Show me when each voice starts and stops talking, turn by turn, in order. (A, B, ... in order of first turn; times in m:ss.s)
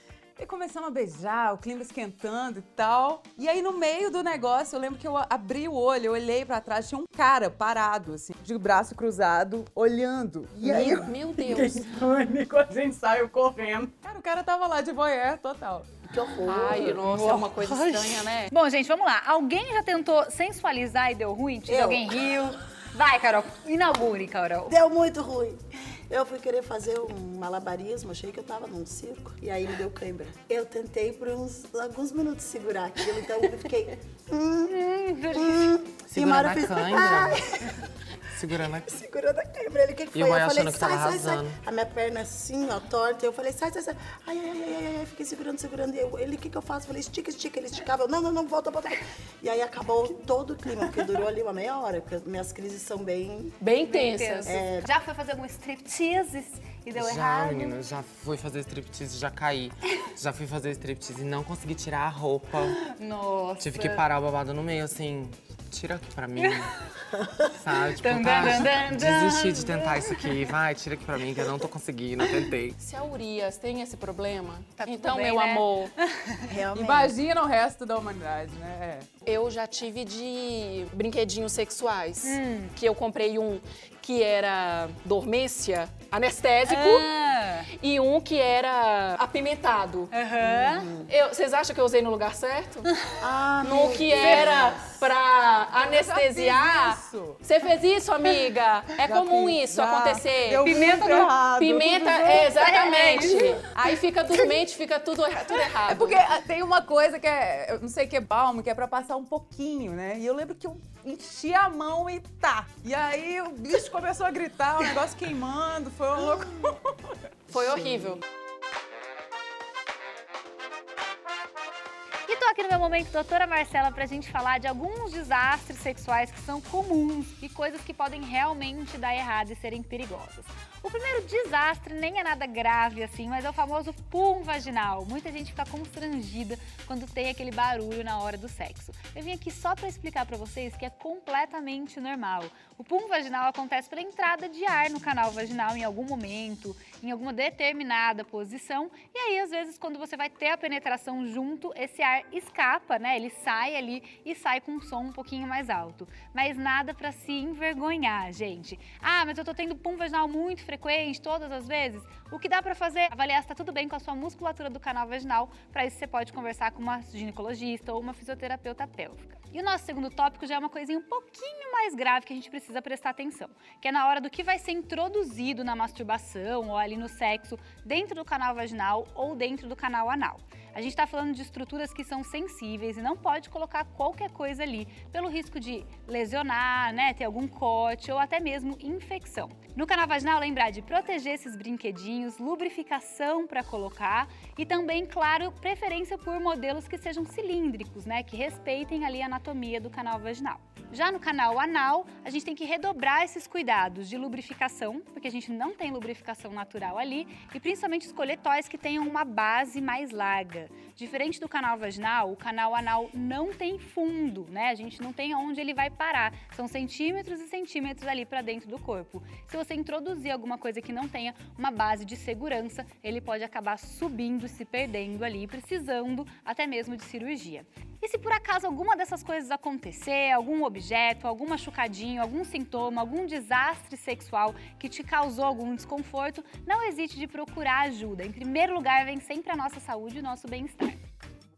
0:00.4-0:15.9 A
0:10.6-0:11.9 B
0:16.1-0:17.0 C
0:16.4-0:18.5 B
0:17.0-0:17.8 A
0:18.5-0:24.8 D
0:21.7-0:22.2 C
0:24.7-0:37.8 C
0:34.7-0:35.7 D
0:36.1-0:37.5 E
0:38.3-0:39.0 E
0:38.8-0:53.6 C
0:40.1-0:41.6 E
0:53.6-0:54.6 B
0:53.9-0:57.8 D
0:54.5-0:54.9 C
0:57.0-1:02.8 E
1:02.8-1:04.0 D
1:03.6-1:06.7 E
1:07.5-1:12.8 E
1:08.0-1:10.3 D
1:12.8-1:15.9 B
1:14.8-1:16.4 D
1:16.5-1:17.2 C
1:16.7-1:19.1 A
1:19.3-1:27.1 B
1:22.2-1:22.7 D
1:26.7-1:27.7 D
1:27.7-1:30.1 B
1:30.1-1:30.9 D
1:30.4-1:31.1 C
1:31.1-1:32.9 B
1:33.2-1:35.0 C
1:33.6-1:40.8 B
1:34.2-1:34.5 D
1:35.8-1:37.4 A
1:39.0-1:44.6 A
1:40.6-1:41.3 D
1:41.5-1:46.3 B
1:42.3-1:43.6 D
1:45.9-1:58.0 A
1:57.5-1:58.2 B
2:02.3-4:01.0 D